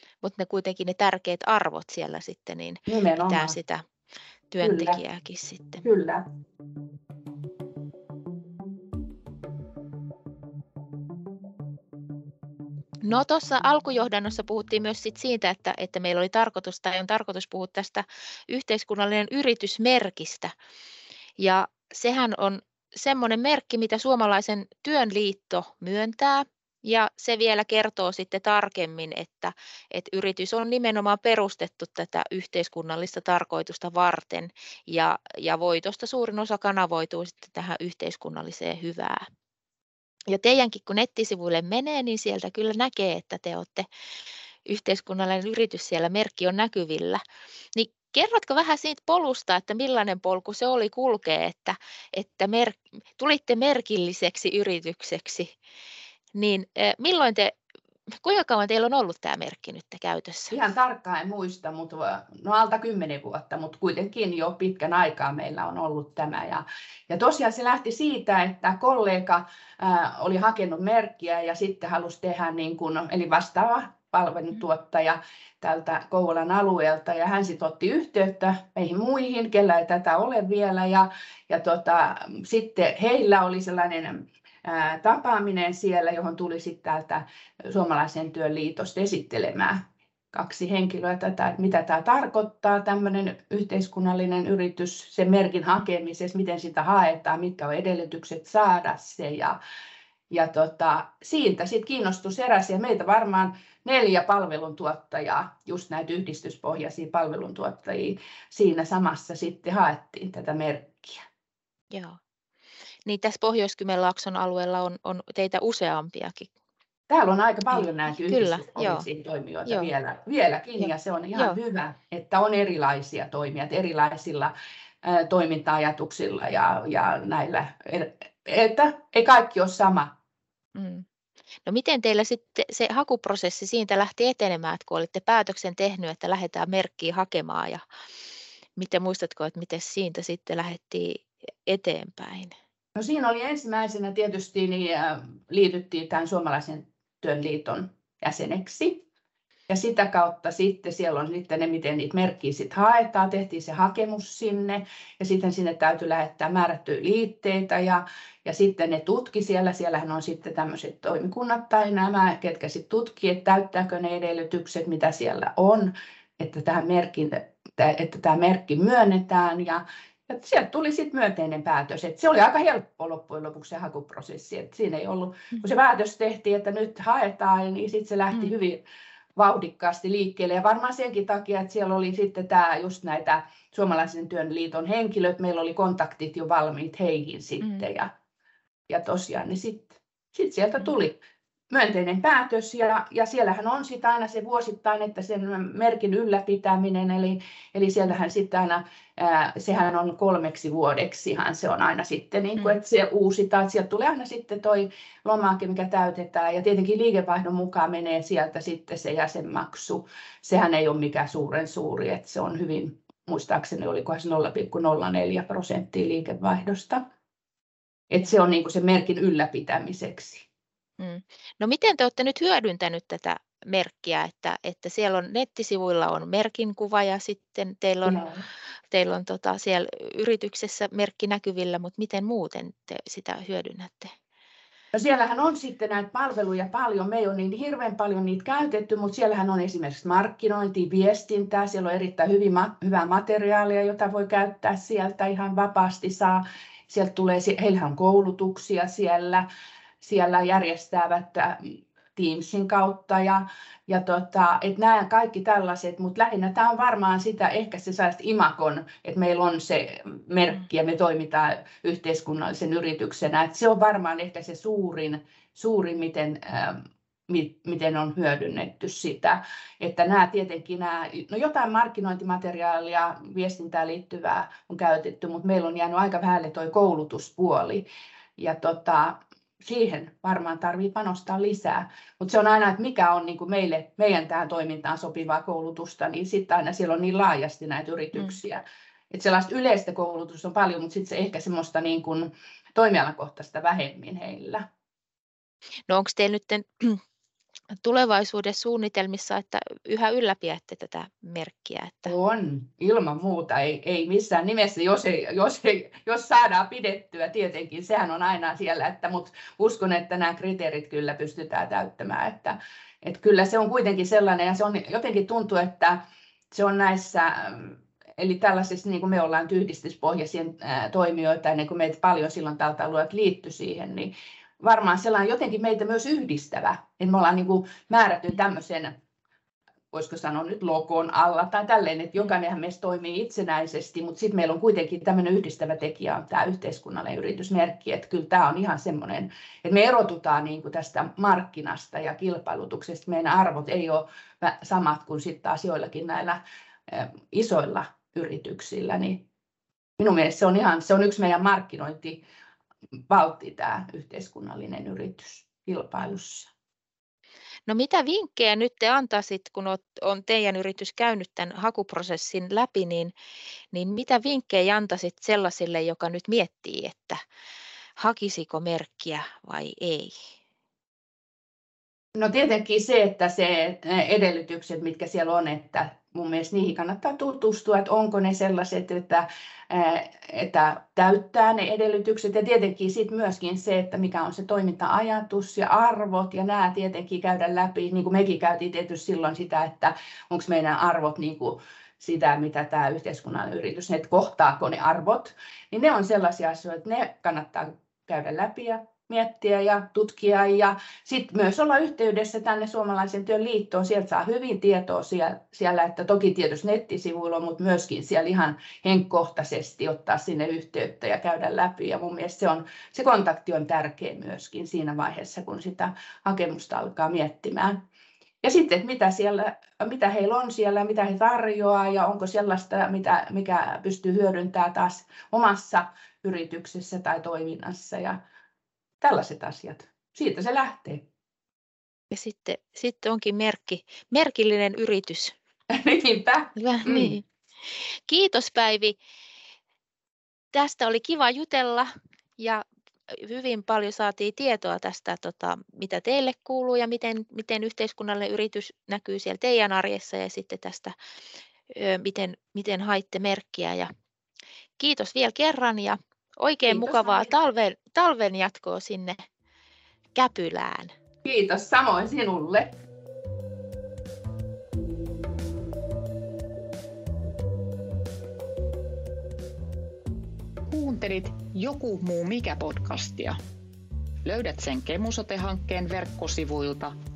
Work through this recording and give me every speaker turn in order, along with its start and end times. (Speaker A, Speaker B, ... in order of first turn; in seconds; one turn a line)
Speaker A: 0.2-3.8
Speaker B: 2.9-3.5
Speaker A: 4.5-5.8
Speaker B: 4.6-4.9
Speaker B: 5.8-6.2
Speaker A: 13.0-20.5
Speaker A: 21.4-39.2
Speaker A: 40.3-43.9
Speaker A: 44.7-47.2
Speaker A: 47.7-55.5
Speaker A: 56.3-57.5
Speaker A: 58.2-60.6
Speaker B: 60.5-89.8
Speaker B: 90.3-99.5
Speaker B: 100.3-111.2
Speaker A: 111.9-112.2
Speaker A: 113.0-116.5
Speaker B: 117.1-124.5
Speaker A: 117.7-119.1
Speaker A: 119.7-119.9
Speaker A: 120.8-121.6
Speaker B: 125.0-130.1
Speaker A: 130.7-131.0
Speaker A: 131.7-137.8
Speaker A: 138.8-142.5
Speaker B: 142.9-149.0
Speaker B: 149.7-153.4
Speaker B: 153.9-160.0
Speaker B: 160.7-162.4
Speaker B: 163.3-163.9
Speaker B: 164.8-165.8
Speaker B: 166.4-178.8
Speaker B: 179.4-182.7
Speaker B: 183.7-187.9
Speaker A: 187.6-187.9
Speaker B: 188.9-189.8
Speaker B: 190.3-191.2
Speaker B: 191.7-198.6
Speaker B: 199.2-204.3
Speaker B: 205.2-217.0
Speaker B: 218.1-220.4
Speaker A: 221.0-228.3
Speaker A: 228.9-234.1
Speaker B: 234.9-249.4
Speaker B: 250.0-251.6
Speaker B: 252.2-266.8
Speaker B: 267.3-277.6
Speaker B: 279.6-288.6
Speaker B: 289.1-294.6
Speaker A: 295.9-297.0
Speaker A: 297.8-302.1
Speaker B: 302.1-315.9
Speaker B: 316.5-324.0
Speaker B: 324.6-328.9
Speaker B: 329.9-334.8
Speaker B: 337.2-339.1
Speaker B: 339.6-340.1
Speaker B: 341.3-341.7
Speaker B: 343.1-345.8
Speaker B: 346.9-349.1
Speaker B: 350.0-352.2
Speaker B: 353.1-356.4
Speaker A: 357.7-363.1
Speaker A: 363.7-367.2
Speaker A: 368.0-370.1
Speaker B: 372.2-391.5
Speaker B: 392.0-417.7
Speaker B: 418.4-428.2
Speaker B: 429.0-431.0
Speaker A: 432.1-435.3
Speaker B: 435.7-437.1
Speaker A: 436.6-437.2
Speaker A: 438.1-439.0
Speaker A: 440.5-450.9
Speaker A: 451.7-453.9
Speaker A: 454.8-459.2
Speaker B: 456.8-457.3
Speaker A: 460.1-460.9
Speaker B: 461.2-462.6
Speaker C: 470.7-471.8
Speaker C: 472.9-473.4
Speaker C: 474.2-476.7